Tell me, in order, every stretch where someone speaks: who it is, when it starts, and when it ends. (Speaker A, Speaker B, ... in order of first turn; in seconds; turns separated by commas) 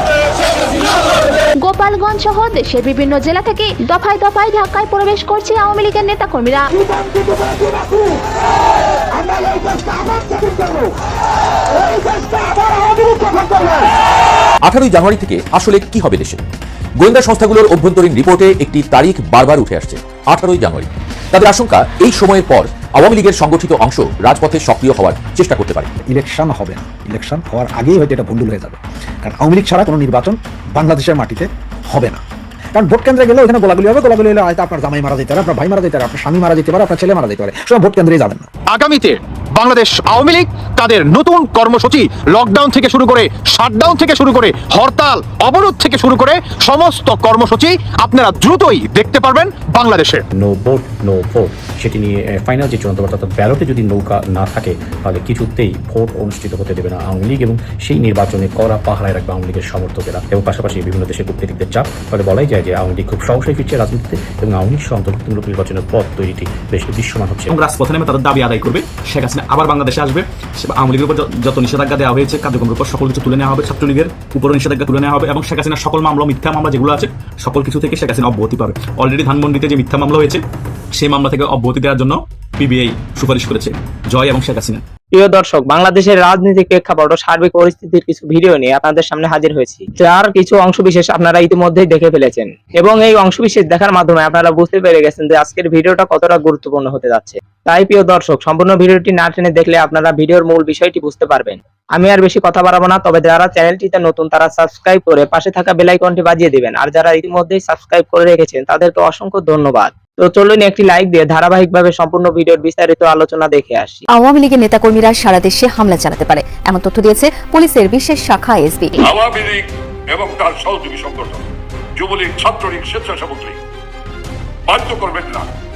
Speaker A: 1.6-6.6, Speaker B: 14.7-16.4, Speaker B: 17.0-25.9, Speaker C: 26.1-32.2, Speaker C: 32.7-38.5, Speaker D: 38.7-50.2, Speaker E: 50.4-67.5, Speaker F: 67.5-80.4, Speaker F: 81.0-84.8, Speaker G: 85.1-114.1, Speaker H: 114.1-118.9, Speaker I: 119.1-119.6, Speaker I: 120.1-121.4, Speaker I: 122.0-123.5, Speaker I: 124.7-125.4